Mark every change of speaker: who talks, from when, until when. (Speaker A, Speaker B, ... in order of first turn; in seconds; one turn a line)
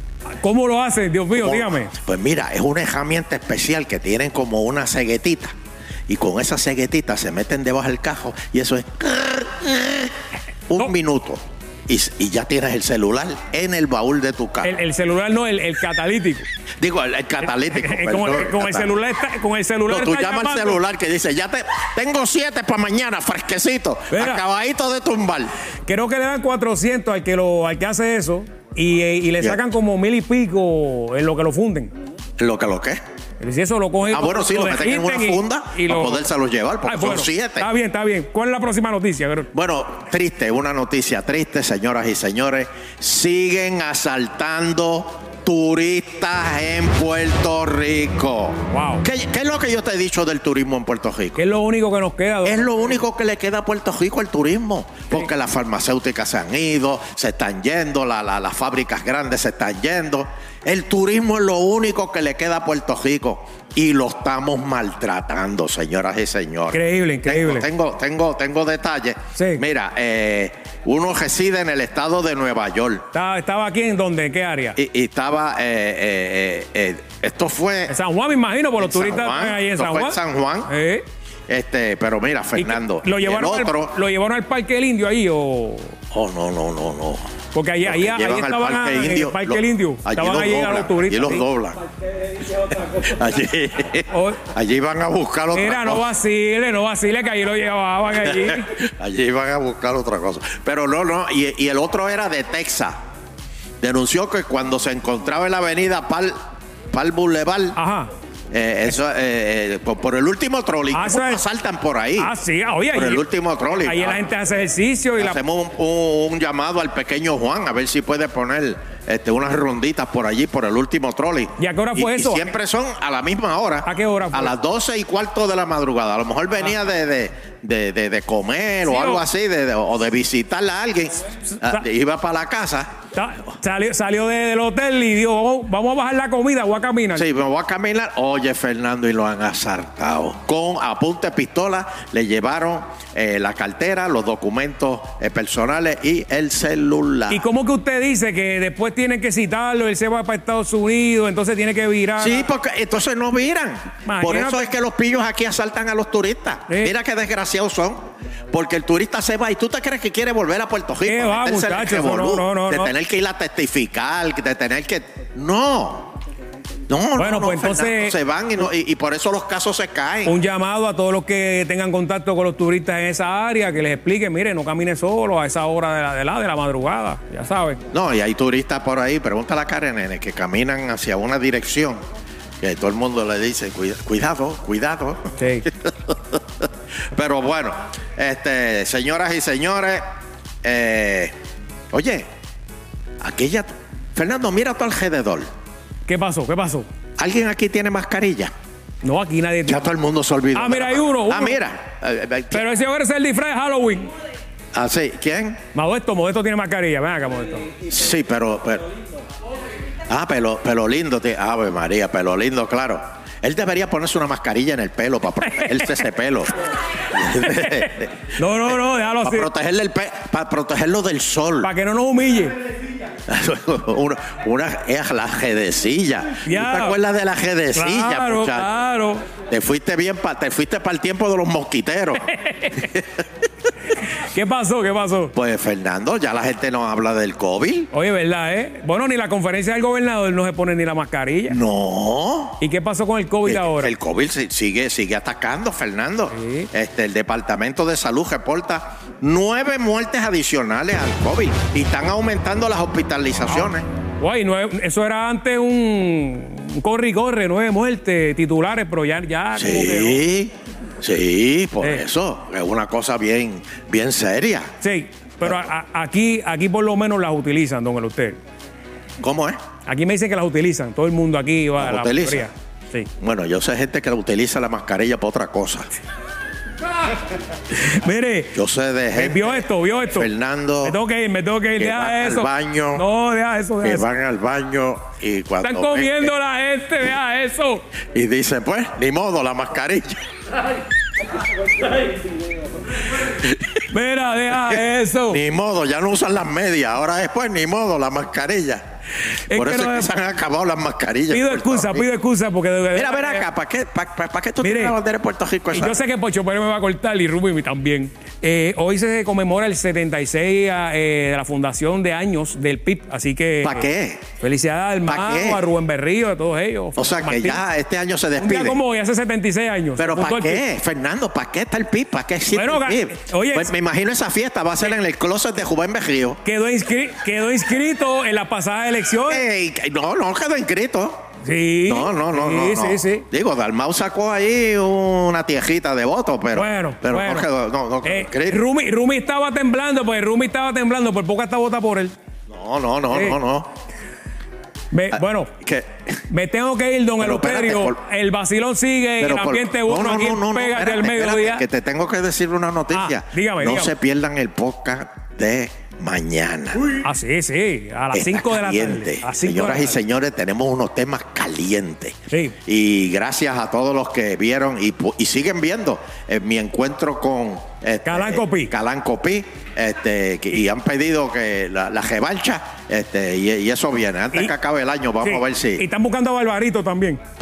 Speaker A: 0.4-1.9
Speaker B: 1.3-5.5
Speaker B: 6.1-10.1
Speaker B: 10.7-14.7
Speaker A: 14.6-16.4
Speaker B: 16.8-19.0
Speaker A: 17.5-20.8
Speaker B: 19.9-25.5
Speaker A: 24.1-24.4
Speaker A: 25.9-31.9
Speaker B: 32.4-33.0
Speaker A: 33.4-36.3
Speaker B: 34.1-37.7
Speaker A: 36.8-39.5
Speaker B: 39.5-51.4
Speaker A: 48.7-49.0
Speaker A: 51.4-52.7
Speaker B: 52.5-73.0
Speaker A: 66.7-67.7
Speaker A: 69.4-69.6
Speaker A: 73.1-74.8
Speaker B: 74.8-77.9
Speaker A: 77.9-81.0
Speaker B: 78.8-80.7
Speaker B: 81.5-84.0
Speaker A: 82.6-86.0
Speaker B: 86.1-87.3
Speaker A: 87.5-91.5
Speaker B: 87.8-91.8
Speaker B: 92.7-96.1
Speaker A: 94.1-94.4
Speaker A: 95.5-98.7
Speaker B: 98.2-103.0
Speaker B: 103.8-106.3
Speaker B: 106.9-107.8
Speaker A: 107.8-108.1
Speaker B: 108.5-112.3
Speaker A: 110.9-111.4
Speaker A: 112.2-113.2
Speaker B: 112.9-114.3
Speaker A: 113.8-115.4
Speaker B: 115.2-132.9
Speaker A: 121.6-122.5
Speaker A: 123.8-124.5
Speaker A: 128.8-129.2
Speaker A: 131.5-131.8
Speaker A: 133.1-137.2
Speaker B: 137.2-147.4
Speaker A: 147.3-152.5
Speaker B: 152.2-158.0
Speaker A: 154.1-154.7
Speaker A: 156.7-156.9
Speaker B: 158.5-166.1
Speaker A: 161.1-162.9
Speaker B: 166.9-170.4
Speaker A: 167.2-168.2
Speaker A: 170.2-177.8
Speaker B: 177.9-182.0
Speaker B: 182.6-190.0
Speaker A: 185.4-185.7
Speaker B: 190.6-191.3
Speaker B: 191.9-192.3
Speaker B: 193.2-195.4
Speaker A: 196.1-196.9
Speaker B: 197.2-198.5
Speaker A: 199.0-199.8
Speaker B: 199.7-202.7
Speaker A: 200.5-201.6
Speaker A: 202.5-204.1
Speaker B: 204.7-205.6
Speaker A: 205.7-207.7
Speaker B: 207.9-208.9
Speaker B: 210.1-218.1
Speaker A: 215.5-216.0
Speaker A: 217.4-219.5
Speaker B: 218.7-221.7
Speaker A: 221.6-222.6
Speaker B: 223.3-228.7
Speaker A: 226.4-227.0
Speaker A: 227.8-229.2
Speaker B: 229.5-233.1
Speaker A: 234.3-235.3
Speaker B: 235.3-237.9
Speaker A: 237.9-241.6
Speaker B: 241.5-242.6
Speaker A: 242.6-243.9
Speaker B: 243.5-253.9
Speaker A: 246.3-246.7
Speaker A: 253.5-260.2
Speaker B: 259.6-264.7
Speaker A: 261.8-262.1
Speaker A: 264.8-268.4
Speaker B: 269.2-269.6
Speaker A: 269.9-273.1
Speaker B: 271.8-272.5
Speaker B: 273.2-275.9
Speaker A: 277.7-278.6
Speaker B: 278.5-281.0
Speaker A: 279.1-280.3
Speaker A: 280.8-284.1
Speaker B: 281.8-283.1
Speaker B: 283.8-286.3
Speaker A: 285.6-287.9
Speaker B: 288.1-290.2
Speaker A: 293.9-295.4
Speaker B: 294.5-298.8
Speaker A: 299.5-300.1
Speaker B: 299.5-302.1
Speaker A: 301.3-303.5
Speaker B: 302.9-306.0
Speaker A: 304.6-305.0
Speaker A: 305.7-313.9
Speaker B: 313.6-314.2
Speaker A: 314.4-317.6
Speaker B: 315.1-315.6
Speaker B: 317.0-318.8
Speaker A: 318.4-320.6
Speaker B: 320.0-326.4
Speaker A: 322.5-323.7
Speaker A: 326.4-329.4
Speaker B: 329.3-331.2
Speaker A: 331.4-333.3
Speaker B: 331.9-338.6
Speaker A: 336.5-337.5
Speaker A: 338.0-342.1
Speaker B: 342.5-343.7
Speaker A: 343.1-343.4
Speaker A: 344.9-345.5
Speaker B: 345.1-346.0
Speaker A: 346.3-351.6
Speaker B: 347.2-348.0
Speaker B: 349.2-357.0
Speaker A: 352.9-353.9
Speaker A: 357.0-360.0
Speaker B: 358.1-375.9
Speaker A: 362.3-362.6
Speaker A: 368.1-368.7
Speaker A: 375.2-377.2